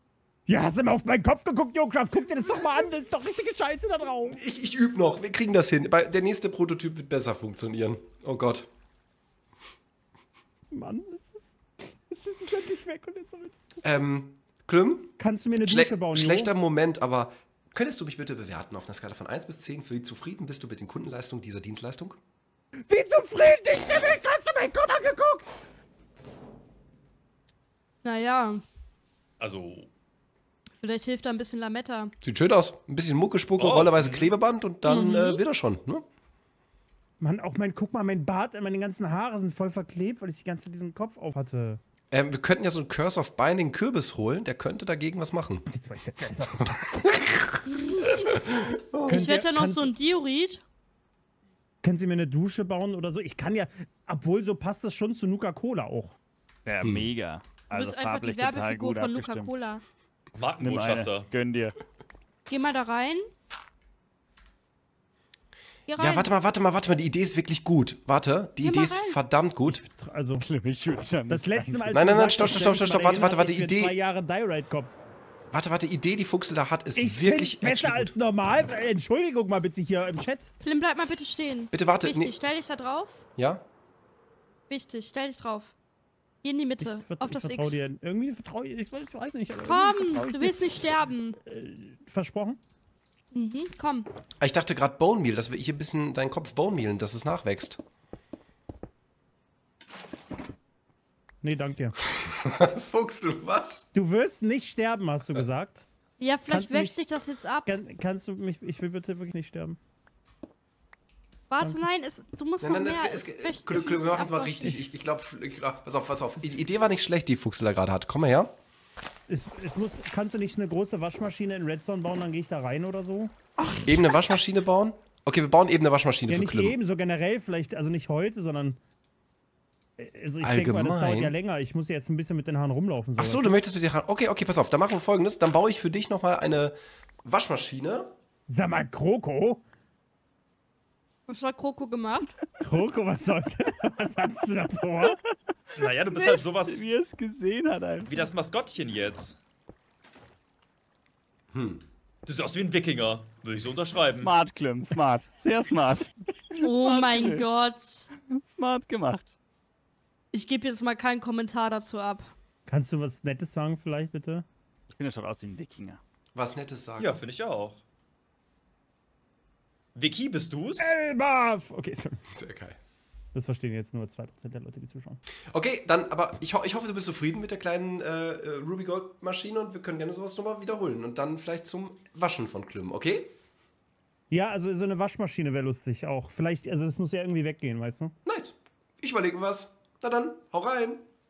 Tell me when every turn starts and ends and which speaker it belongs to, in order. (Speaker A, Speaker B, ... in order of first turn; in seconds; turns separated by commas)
Speaker A: 0.5-4.4, Speaker B: 4.3-8.7, Speaker A: 10.7-11.5, Speaker A: 12.1-13.8, Speaker B: 13.8-22.2, Speaker A: 15.2-16.5, Speaker A: 22.9-25.4, Speaker C: 28.0-28.6, Speaker D: 29.4-29.9, Speaker C: 30.8-32.1, Speaker B: 32.2-36.0, Speaker D: 33.6-34.3, Speaker C: 34.8-35.4, Speaker A: 37.2-41.8, Speaker B: 42.1-45.7, Speaker A: 45.7-47.2, Speaker B: 46.7-49.3, Speaker C: 47.8-48.2, Speaker A: 49.0-49.9, Speaker C: 49.1-50.6, Speaker A: 51.8-56.1, Speaker E: 56.6-59.5, Speaker B: 56.8-57.1, Speaker C: 57.7-59.8, Speaker D: 60.4-61.3, Speaker E: 60.6-61.8, Speaker C: 62.5-63.2, Speaker C: 65.9-66.3, Speaker B: 66.0-69.9, Speaker C: 68.6-69.2, Speaker A: 69.9-70.4, Speaker E: 70.4-72.1, Speaker A: 71.3-75.0, Speaker B: 71.9-73.9, Speaker B: 75.5-78.1, Speaker A: 77.0-80.5, Speaker C: 80.6-83.2, Speaker B: 81.7-82.3, Speaker B: 83.4-83.6, Speaker C: 84.7-85.7, Speaker C: 86.4-87.8, Speaker A: 86.8-90.6, Speaker C: 89.6-91.4, Speaker A: 91.4-92.6, Speaker C: 93.3-94.1, Speaker B: 94.4-97.8, Speaker A: 101.4-101.9, Speaker B: 102.1-103.9, Speaker A: 103.9-105.9, Speaker C: 106.2-107.7, Speaker A: 106.5-107.0, Speaker A: 107.7-109.8, Speaker C: 111.5-114.8, Speaker B: 112.6-118.5, Speaker A: 119.3-123.3, Speaker B: 123.8-126.8, Speaker A: 126.3-128.8, Speaker A: 130.0-133.6, Speaker B: 130.4-131.3, Speaker B: 133.2-138.1, Speaker A: 138.5-139.6, Speaker C: 141.3-142.3, Speaker A: 142.6-145.2, Speaker D: 145.8-146.8, Speaker E: 146.1-148.2, Speaker D: 148.1-149.4, Speaker B: 151.5-151.8, Speaker D: 152.2-154.3, Speaker E: 154.1-157.5, Speaker C: 156.6-158.1, Speaker E: 158.1-159.3, Speaker C: 160.3-162.3, Speaker A: 162.7-164.4, Speaker E: 164.9-166.0, Speaker B: 166.3-167.2, Speaker D: 167.0-167.8, Speaker D: 169.9-170.9, Speaker A: 170.8-172.2, Speaker B: 172.3-172.8, Speaker A: 173.3-175.2, Speaker B: 175.5-183.3, Speaker A: 184.3-188.1, Speaker B: 188.2-191.0